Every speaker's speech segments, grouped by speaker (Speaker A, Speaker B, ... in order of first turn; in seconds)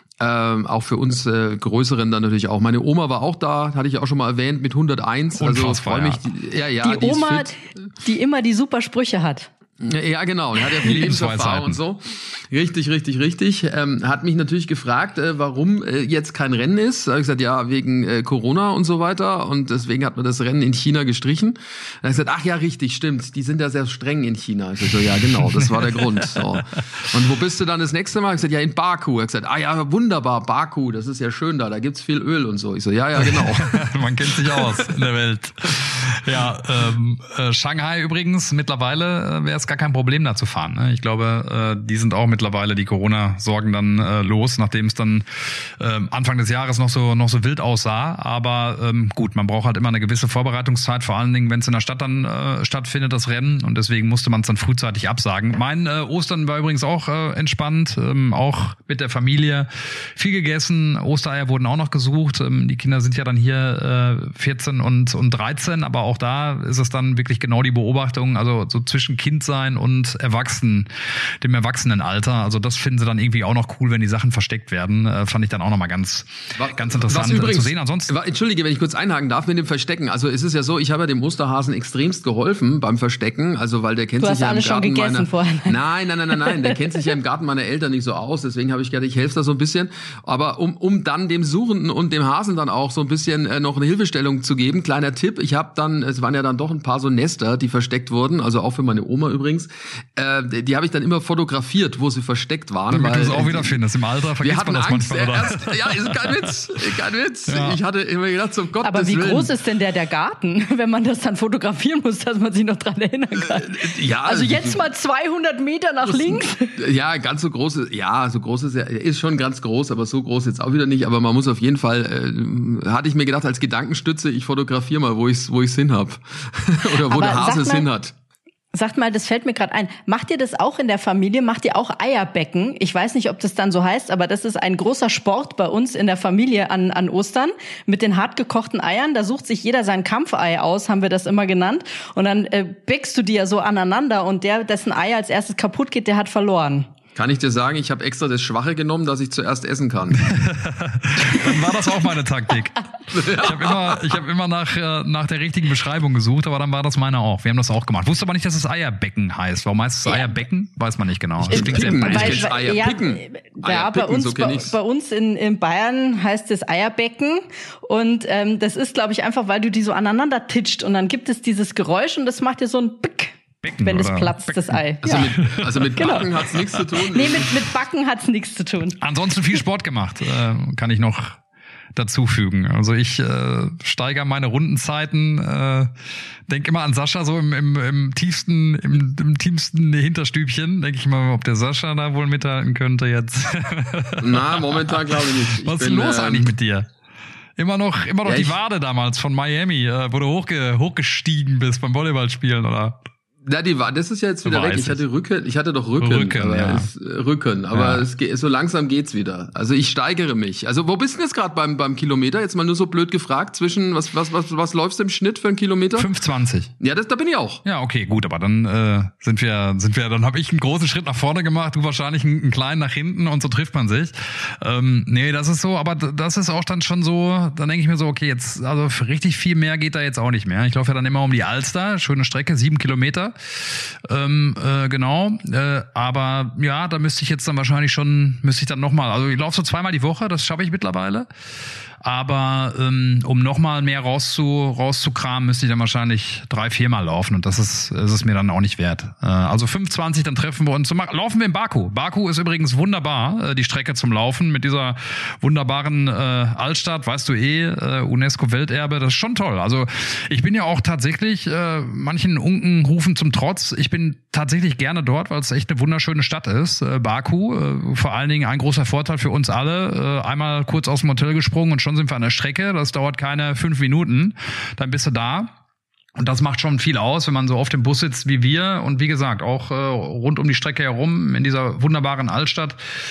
Speaker A: 0.2-7.5, 9.8-33.9, 34.4-34.9, 76.5-103.8, 104.4-109.5, 113.4-114.8, 116.1-128.1, 147.2-150.3, 153.1-154.2, 161.4-164.8, 175.0-177.5, 194.2-196.5, 198.2-198.6, 203.4-216.1, 216.8-217.6
Speaker B: 5.4-6.2, 10.8-11.8, 33.2-70.9, 71.4-78.1, 102.9-106.6, 107.5-107.8, 150.2-162.5, 173.6-176.8, 179.0-181.4, 181.9-185.9, 186.5-196.9, 197.6-203.0, 204.4-205.0, 206.0-206.9, 207.7-208.1, 216.0-216.7, 217.6-241.3, 242.0-275.5, 276.2-282.8
Speaker C: 6.8-9.5, 84.2-85.8, 86.3-86.8, 108.8-116.8, 127.0-127.9, 128.7-146.9, 161.5-175.3, 175.9-176.2, 177.0-179.0